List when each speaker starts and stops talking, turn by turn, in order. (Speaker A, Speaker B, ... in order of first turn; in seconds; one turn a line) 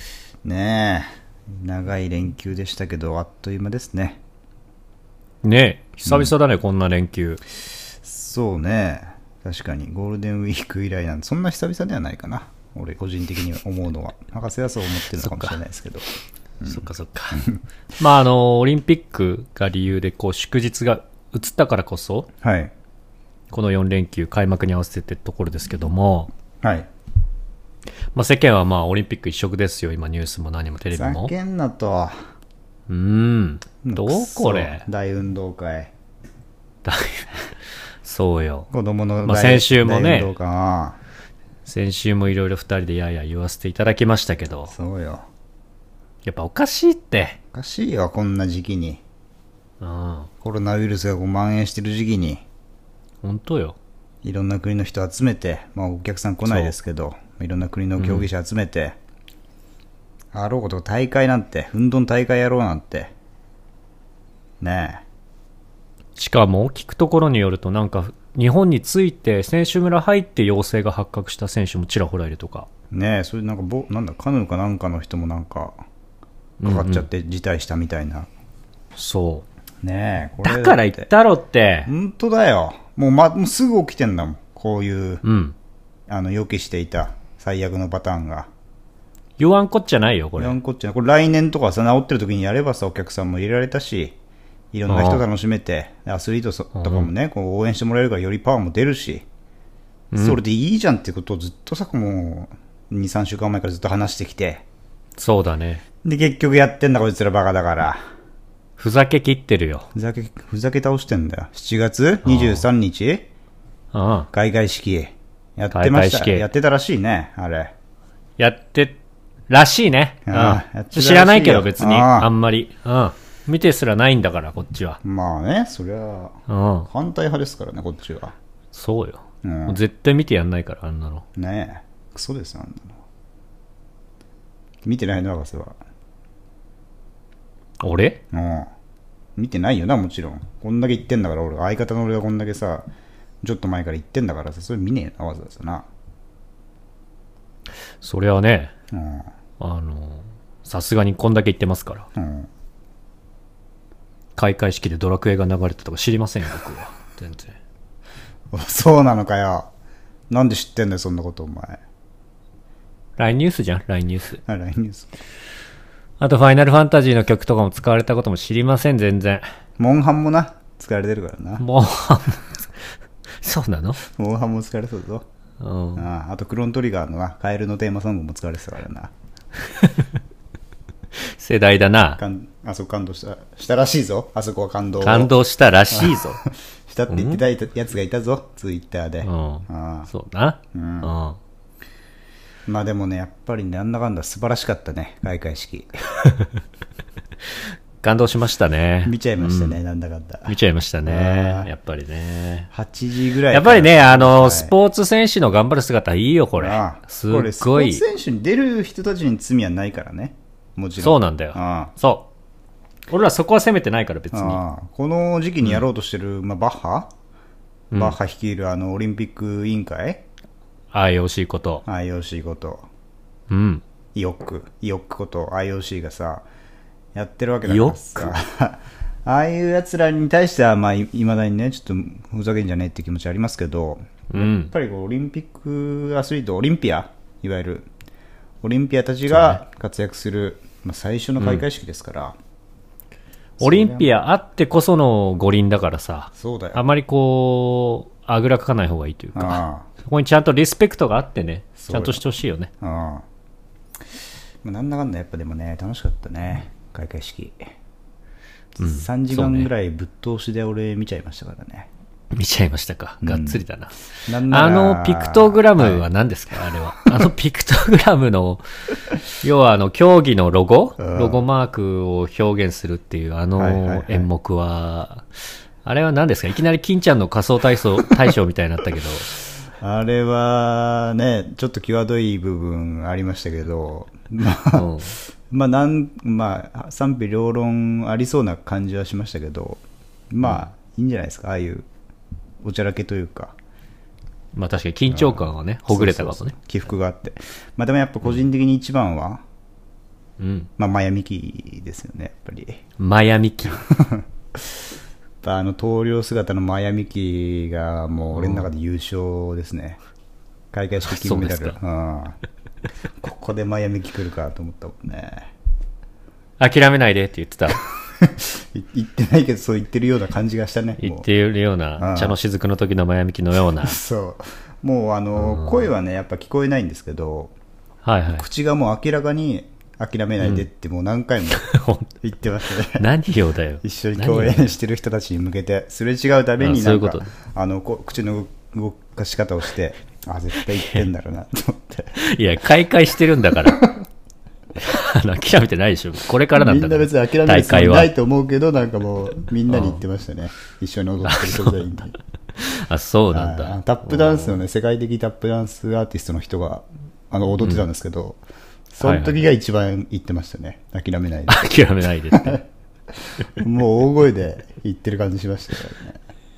Speaker A: 0.4-4.2
Speaker B: 5.4-7.4
Speaker A: 6.1-6.3
Speaker A: 8.0-16.0
Speaker B: 15.1-15.6
Speaker A: 16.6-17.6
Speaker B: 16.6-22.3
Speaker A: 22.4-22.7
Speaker B: 23.5-26.3
Speaker A: 26.6-26.9
Speaker B: 28.1-31.3
Speaker A: 30.9-32.2
Speaker B: 32.9-34.9
Speaker A: 33.8-35.9
Speaker B: 36.8-37.5
Speaker B: 38.0-38.7
Speaker A: 38.7-41.0
Speaker B: 39.2-40.3
Speaker B: 41.6-44.7
Speaker A: 44.7-45.2
Speaker B: 46.2-47.4
Speaker A: 47.5-49.0
Speaker B: 49.8-50.3
Speaker A: 50.4-52.4
Speaker B: 53.2-53.8
Speaker A: 54.2-59.0
Speaker B: 56.4-56.7
Speaker B: 58.0-58.3
Speaker A: 60.3-63.1
Speaker A: 64.6-65.0
Speaker B: 66.2-72.7
Speaker A: 72.9-75.8
Speaker B: 76.6-77.1
Speaker A: 76.6-78.3
Speaker B: 79.0-79.4
Speaker A: 79.8-81.1
Speaker B: 80.4-81.9
Speaker A: 81.8-85.2
Speaker B: 85.2-85.5
Speaker A: 86.1-88.5
Speaker B: 89.4-90.6
Speaker A: 90.4-94.2
Speaker A: 94.7-99.2
Speaker B: 94.9-95.2
Speaker B: 96.7-97.1
Speaker B: 100.1-100.4
Speaker A: 100.1-104.6
Speaker B: 105.2-105.8
Speaker A: 106.0-108.0
Speaker B: 108.8-109.9
Speaker A: 109.9-113.3
Speaker B: 112.2-112.7
Speaker B: 113.9-114.3
Speaker A: 114.3-117.7
Speaker B: 115.7-116.5
Speaker B: 118.4-119.0
Speaker B: 119.5-125.0
Speaker A: 120.3-122.3
Speaker A: 125.0-128.3
Speaker B: 126.5-126.9
Speaker B: 128.7-131.2
Speaker A: 129.4-129.8
Speaker A: 131.3-133.0
Speaker A: 134.8-135.8
Speaker B: 137.8-138.2
Speaker A: 138.3-138.7
Speaker A: 139.3-142.9
Speaker A: 143.4-145.9
Speaker B: 148.0-148.7
Speaker A: 148.9-149.3
Speaker B: 149.6-152.1
Speaker A: 152.2-152.5
Speaker B: 154.3-157.5
Speaker A: 158.5-159.7
Speaker A: 160.3-161.8
Speaker B: 163.2-164.4
Speaker A: 164.4-165.2
Speaker B: 166.2-169.4
Speaker A: 169.8-171.6
Speaker B: 171.6-172.6
Speaker B: 173.4-174.0
Speaker A: 174.1-175.2
Speaker B: 175.6-176.1
Speaker A: 175.9-179.1
Speaker B: 179.7-180.0
Speaker B: 181.2-182.2
Speaker A: 182.2-185.3
Speaker B: 185.0-186.4
Speaker A: 185.9-190.1
Speaker B: 187.1-187.4
Speaker B: 189.2-191.4
Speaker A: 190.7-191.1
Speaker A: 192.7-196.0
Speaker B: 197.6-199.8
Speaker A: 199.0-201.7
Speaker B: 200.5-202.7
Speaker A: 202.7-204.7
Speaker B: 203.5-208.0
Speaker A: 206.6-211.9
Speaker B: 211.0-212.3
Speaker B: 213.1-214.6
Speaker A: 214.3-217.1
Speaker A: 217.9-220.2
Speaker B: 220.9-221.8
Speaker A: 221.8-222.9
Speaker B: 223.5-223.8
Speaker A: 224.1-226.4
Speaker A: 227.1-237.9
Speaker B: 227.7-228.3
Speaker B: 234.3-234.7
Speaker A: 238.6-242.3
Speaker B: 239.3-239.6
Speaker B: 241.4-241.6
Speaker A: 243.6-244.2
Speaker B: 243.6-252.7
Speaker A: 246.4-246.9
Speaker A: 249.3-249.9
Speaker A: 251.8-252.2
Speaker A: 252.8-253.2
Speaker A: 254.6-257.6
Speaker A: 258.8-261.9
Speaker B: 258.8-259.7
Speaker B: 262.3-263.9
Speaker A: 263.2-263.6
Speaker A: 264.2-266.1
Speaker B: 264.5-268.6
Speaker B: 269.3-275.3
Speaker A: 271.0-271.4
Speaker A: 273.6-274.3
Speaker B: 275.8-279.3
Speaker A: 279.8-291.9
Speaker B: 284.7-285.1
Speaker A: 292.6-293.5
Speaker B: 294.5-296.5
Speaker A: 295.1-299.4
Speaker B: 300.4-300.7
Speaker A: 300.8-302.8
Speaker B: 303.0-303.8
Speaker A: 303.7-304.8
Speaker A: 305.4-310.0
Speaker B: 308.3-308.7
Speaker A: 310.7-312.4
Speaker B: 311.0-311.8
Speaker A: 313.2-315.5
Speaker B: 316.6-317.8
Speaker A: 318.2-321.3
Speaker B: 321.0-324.0
Speaker A: 322.0-322.4
Speaker A: 323.8-327.5
Speaker B: 325.4-325.9
Speaker B: 328.0-328.4
Speaker A: 328.4-331.7
Speaker B: 330.4-330.6
Speaker B: 331.6-332.1
Speaker A: 332.2-333.1
Speaker B: 332.9-334.6
Speaker A: 333.8-342.2
Speaker B: 336.6-337.3
Speaker B: 342.2-343.9
Speaker A: 343.6-344.0
Speaker B: 344.8-348.1
Speaker A: 346.5-352.1
Speaker B: 349.7-350.0
Speaker B: 351.3-351.8
Speaker B: 352.6-354.6
Speaker A: 353.3-361.6
Speaker B: 359.0-359.4
Speaker B: 361.5-362.6
Speaker A: 362.3-362.6
Speaker A: 363.5-366.2